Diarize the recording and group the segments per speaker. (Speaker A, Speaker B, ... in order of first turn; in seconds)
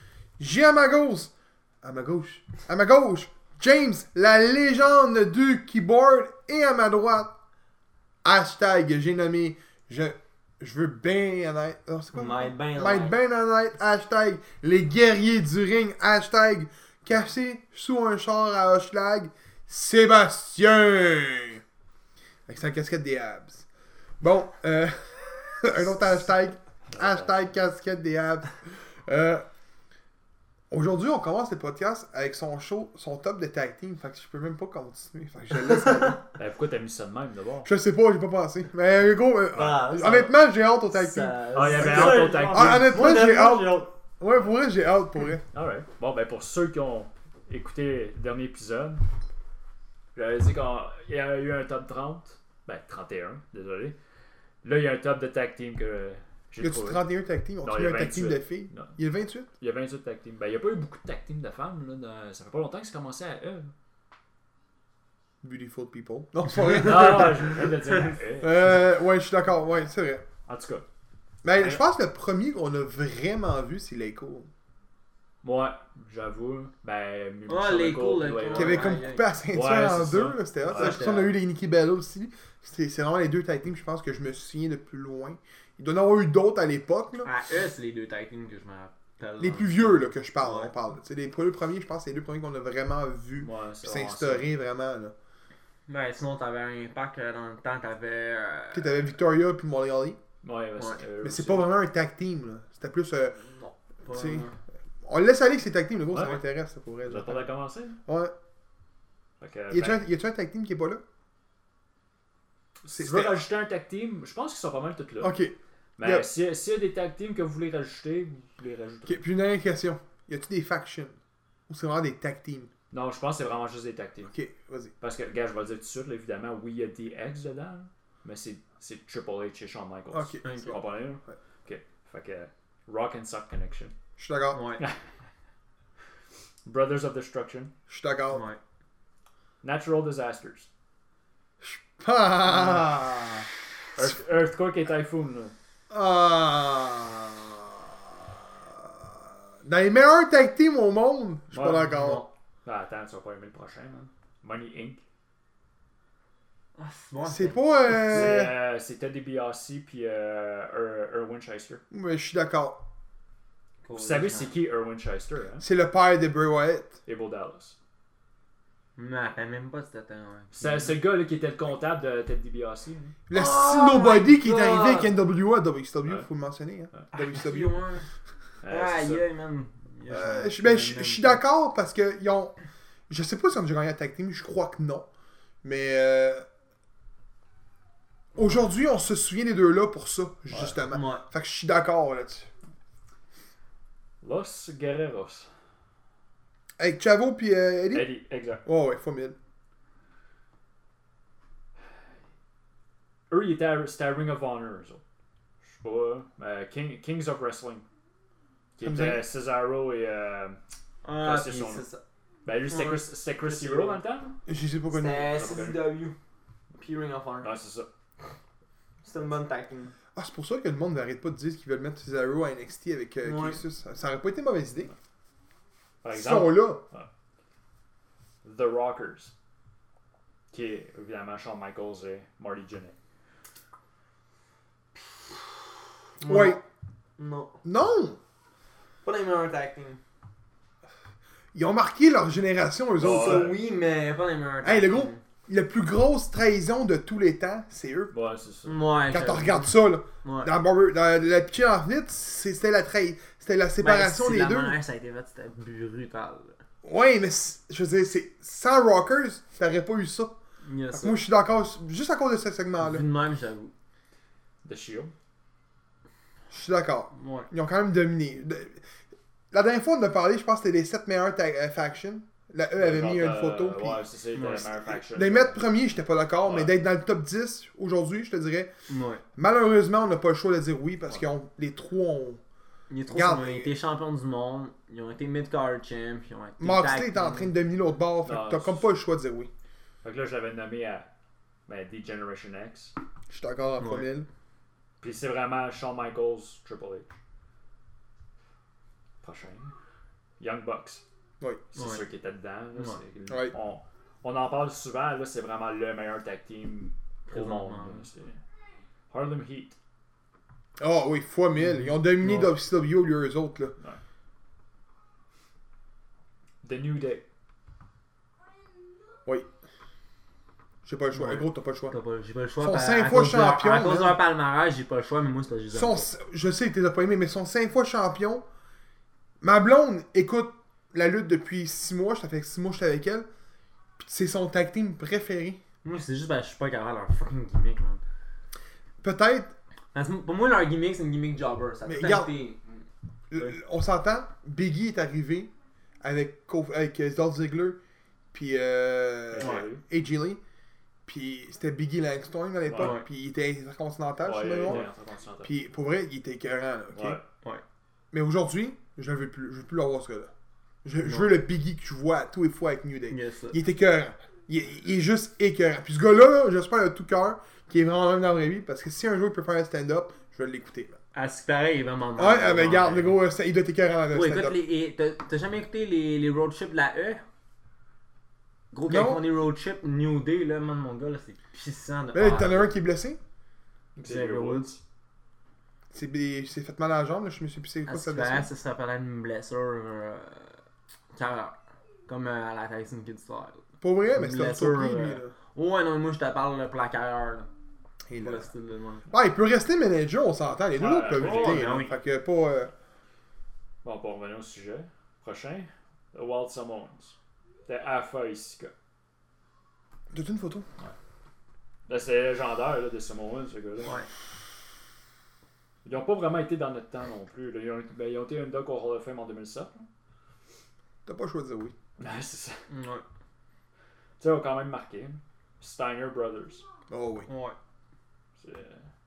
Speaker A: 0.4-7.3, 8.2-21.6, 22.5-23.7, 24.2-29.4, 30.7-36.2, 37.6-45.4, 56.6-59.5, 65.4-67.8, 68.4-70.2, 71.4-74.5, 78.5-87.3, 89.4-95.1, 98.7-100.2, 101.2-103.4, 104.1-104.5, 105.0-107.5, 108.0-108.3, 109.7-111.0, 112.9-113.4, 115.2-116.3, 119.0-121.2, 121.7-122.7, 124.3-124.9, 130.1-130.6, 134.2-134.7, 137.9-138.4, 141.6-143.5, 145.9-147.9, 148.6-152.3, 157.2-158.6, 161.9-162.8, 165.6-167.0, 173.3-177.8, 180.1-182.5, 183.1-185.1, 185.6-186.4, 188.3-192.5, 196.8-198.1, 198.6-199.3, 208.8-209.2, 214.5-215.3, 220.1-224.9, 226.1-226.8, 236.2-236.6, 237.6-238.2, 241.5-243.5, 244.6-248.1, 249.1-254.8, 256.8-260.4, 260.9-263.1, 266.5-268.8, 269.5-274.0, 274.9-278.7, 279.4-282.4, 283.1-283.7, 286.6-289.5, 293.3-294.3, 301.4-301.6, 303.3-303.5, 310.8-313.8, 320.8-321.9, 322.6-324.2, 325.7-328.4, 329.4-333.3, 334.0-335.6, 339.0-339.5, 341.9-342.3, 343.3-345.5, 346.0-347.8, 348.3-350.4, 351.1-354.8, 355.4-357.2, 358.1-360.3, 360.8-371.0, 372.2-374.6, 378.9-379.2, 382.1-383.2, 385.9-388.5, 393.8-395.3, 398.1-398.5, 399.1-402.7, 410.1-410.6, 421.1-421.7, 426.9-427.3
Speaker B: 12.1-13.2, 39.5-43.9, 77.5-79.3, 80.7-81.3, 87.2-90.7, 95.9-99.1, 103.4-104.5, 130.4-130.8, 134.5-134.8, 138.3-138.6, 152.0-152.3, 156.8-158.4, 163.8-164.5, 169.0-170.9, 173.3-175.1, 177.1-178.1, 178.7-181.4, 190.9-191.2, 211.0-212.0, 212.6-214.0, 214.9-216.2, 216.7-217.5, 219.0-219.9, 223.2-223.6, 236.2-236.6, 237.2-237.6, 239.0-240.0, 243.0-245.2, 248.6-250.5, 253.8-256.6, 260.6-261.2, 262.8-263.7, 267.1-267.5, 274.3-274.7, 278.9-279.2, 282.9-287.5, 293.8-294.1, 301.8-302.0, 302.7-303.0, 307.3-308.0, 311.6-312.5, 321.1-326.0, 335.8-338.0, 339.9-343.6, 349.4-349.6, 352.8-353.1, 361.0-361.3, 363.1-363.6, 371.1-373.2, 374.1-377.2, 378.7-382.7, 384.0-384.7, 387.9-390.6, 391.1-391.6, 392.1-397.5, 398.2-399.1, 401.1-402.0, 422.7-423.0, 427.3-427.6
Speaker C: 26.9-27.4, 36.3-37.7, 41.5-43.1, 45.5-49.0, 50.1-54.0, 54.6-57.0, 57.6-59.0, 59.6-63.7, 66.7-68.8, 70.5-70.8, 75.4-81.3, 93.4-94.5, 100.4-101.7, 106.1-106.4, 107.0-108.0, 109.4-110.0, 112.8-115.3, 116.0-119.2, 122.9-124.3, 125.0-133.9, 136.6-137.7, 139.6-140.7, 143.9-145.5, 151.5-155.0, 157.9-161.8, 163.9-165.6, 167.1-167.8, 170.5-173.2, 178.6-179.2, 190.5-190.8, 194.2-195.5, 197.9-198.6, 203.3-205.0, 205.8-207.8, 208.8-210.6, 211.2-211.8, 212.4-214.4, 215.3-215.9, 217.4-217.9, 226.0-227.1, 228.4-229.3, 230.5-232.9, 243.0-243.6, 248.1-248.8, 264.6-265.1, 272.8-275.6, 276.4-276.7, 288.2-288.8, 290.0-291.1, 291.7-292.9, 295.0-297.1, 299.2-299.7, 300.4-301.0, 301.7-308.4, 309.1-309.8, 316.6-317.2, 349.3-349.8, 352.7-353.0, 354.2-355.5, 356.9-357.2, 384.0-384.8, 400.7-401.8, 403.8-407.1, 407.6-408.7, 411.9-414.0, 415.8-419.9, 422.0-422.6, 424.2-426.6, 428.4-428.9